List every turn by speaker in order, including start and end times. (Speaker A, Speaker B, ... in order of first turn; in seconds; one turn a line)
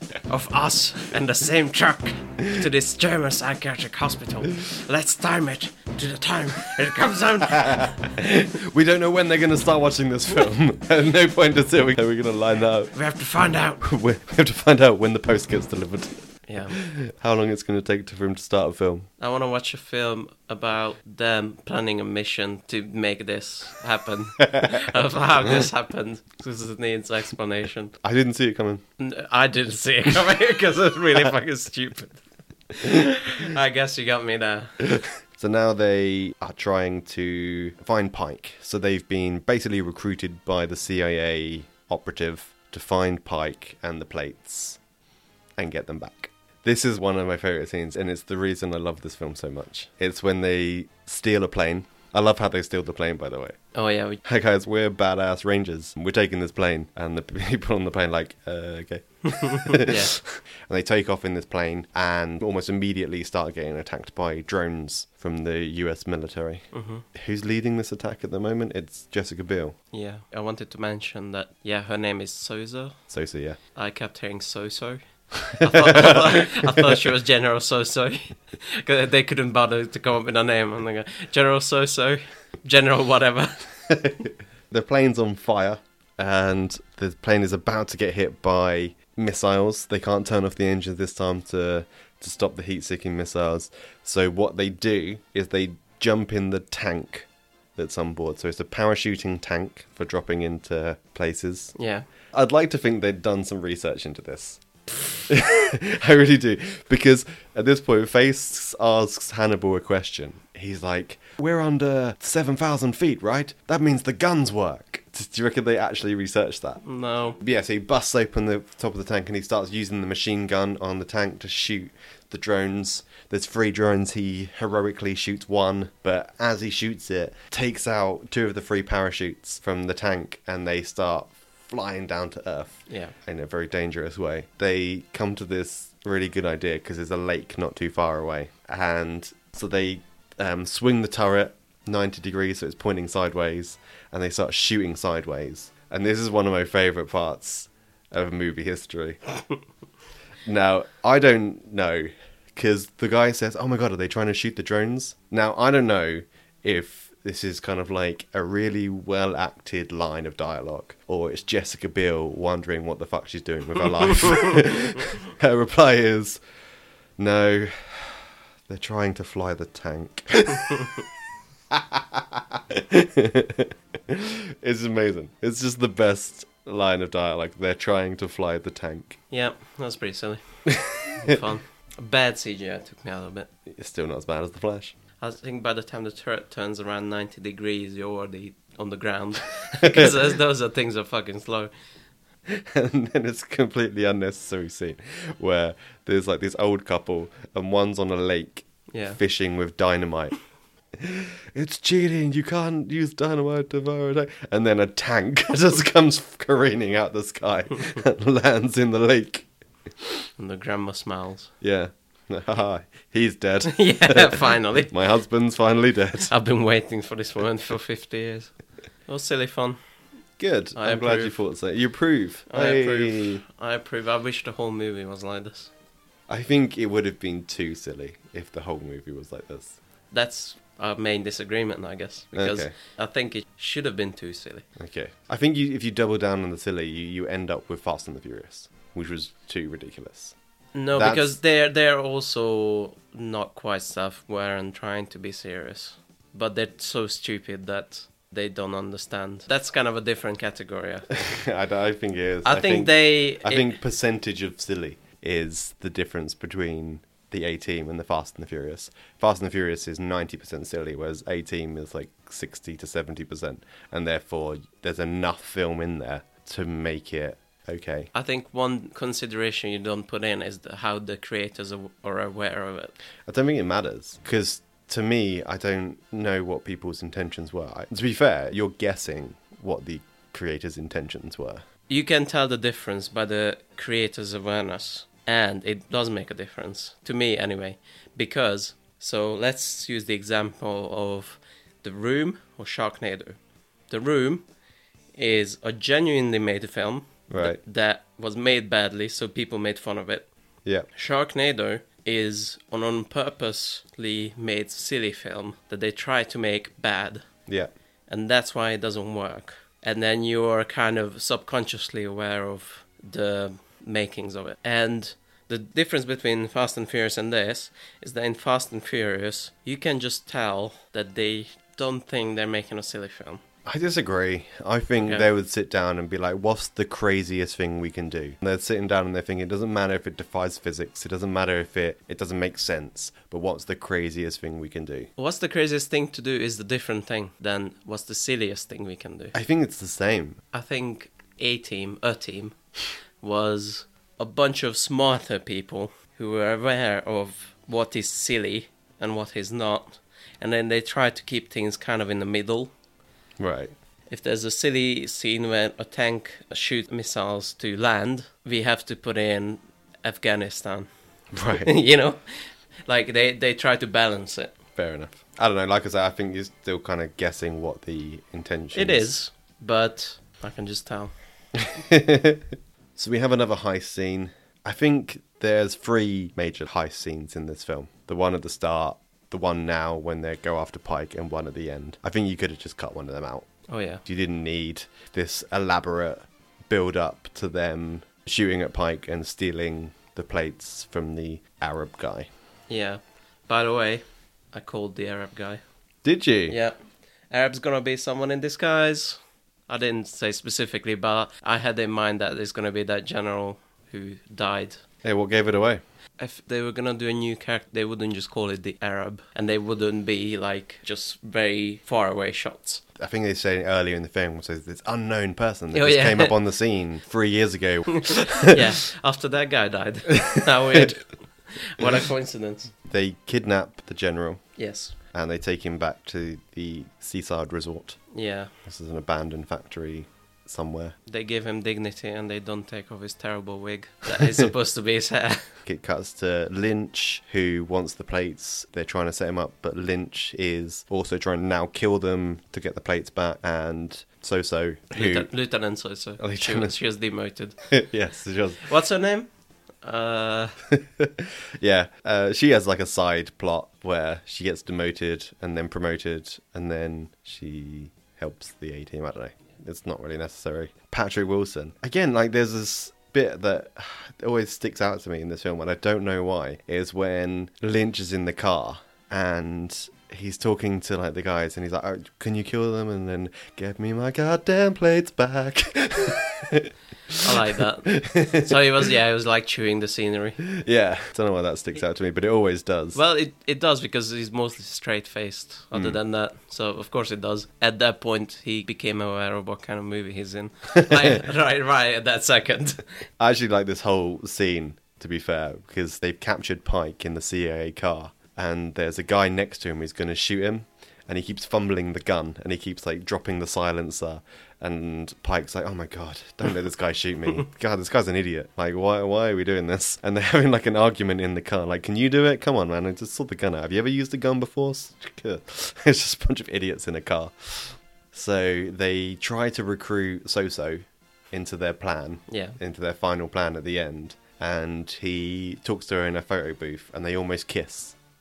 Speaker A: 0.3-8.0
Speaker B: 7.4-12.9
Speaker A: 12.9-13.8
Speaker B: 13.8-19.1
Speaker A: 16.5-16.8
Speaker A: 19.2-27.9
Speaker B: 24.4-24.9
Speaker B: 28.0-28.8
Speaker A: 29.0-32.2
Speaker A: 32.8-34.8
Speaker B: 35.0-44.8
Speaker B: 45.6-53.6
Speaker A: 53.7-54.2
Speaker B: 54.2-69.8
Speaker A: 59.4-60.1
Speaker A: 66.7-67.0
Speaker A: 69.9-73.0
Speaker B: 73.1-73.6
Speaker A: 73.8-84.1
Speaker B: 75.5-77.0
Speaker B: 84.7-101.8
Speaker A: 101.8-102.1
Speaker B: 102.3-116.8
Speaker A: 116.8-117.4
Speaker B: 117.4-149.2
Speaker A: 132.9-133.2
Speaker B: 150.4-166.4
Speaker B: 167.2-171.0
Speaker B: 171.7-179.2
Speaker A: 179.3-180.4
Speaker B: 180.7-181.4
Speaker A: 181.1-183.5
Speaker B: 183.7-184.9
Speaker A: 185.2-191.7
Speaker B: 189.8-190.2
Speaker B: 192.5-200.4
Speaker A: 198.9-199.2
Speaker B: 201.0-209.5
Speaker A: 210.4-211.5
Speaker B: 211.6-216.3
Speaker A: 213.7-214.9
Speaker A: 216.2-218.5
Speaker A: 219.1-219.8
Speaker B: 220.4-223.4
Speaker A: 220.8-221.4
Speaker A: 222.5-225.7
Speaker B: 226.3-229.8
Speaker A: 230.1-234.7
Speaker B: 232.3-232.7
Speaker B: 234.8-240.3
Speaker A: 240.8-251.1
Speaker B: 240.9-241.3
Speaker B: 251.2-268.1
Speaker A: 252.4-253.7
Speaker A: 268.1-272.9
Speaker B: 273.3-281.6
Speaker A: 281.9-293.4
Speaker A: 293.9-294.5
Speaker A: 295.2-300.3
Speaker B: 297.3-297.6
Speaker A: 300.9-307.2
Speaker A: 308.1-323.4
Speaker B: 323.6-335.1
Speaker A: 325.0-325.3
Speaker A: 335.2-339.4
Speaker B: 339.3-340.4
Speaker A: 340.5-342.6
Speaker A: 343.2-352.7
Speaker B: 353.4-353.7
Speaker A: 354.1-360.9
Speaker B: 361.3-361.7
Speaker A: 361.5-364.6
Speaker B: 364.8-369.1
Speaker A: 368.7-371.1
Speaker B: 371.6-383.5
Speaker A: 383.7-384.0
Speaker B: 384.1-392.3
Speaker A: 392.7-395.6
Speaker B: 396.0-396.6
Speaker A: 396.5-396.8
Speaker A: 397.3-404.8
Speaker B: 405.0-405.8
Speaker A: 406.2-412.8
Speaker B: 413.0-418.6
Speaker A: 415.7-416.4
Speaker A: 417.9-422.7
Speaker B: 420.2-420.9
Speaker B: 422.9-424.5
Speaker A: 424.6-424.9
Speaker B: 425.1-428.0
Speaker A: 428.1-428.5
Speaker B: 428.6-430.9
Speaker A: 431.1-435.5
Speaker B: 434.1-434.5
Speaker B: 435.6-445.3
Speaker A: 444.9-447.6
Speaker B: 446.2-446.8
Speaker B: 447.6-448.7
Speaker A: 448.7-449.3
Speaker A: 449.8-450.6
Speaker B: 450.7-478.6
Speaker A: 477.2-480.4
Speaker B: 480.4-483.0
Speaker A: 482.9-492.8
Speaker B: 485.7-486.0
Speaker B: 490.8-491.2
Speaker B: 493.2-528.0
Speaker A: 522.3-522.6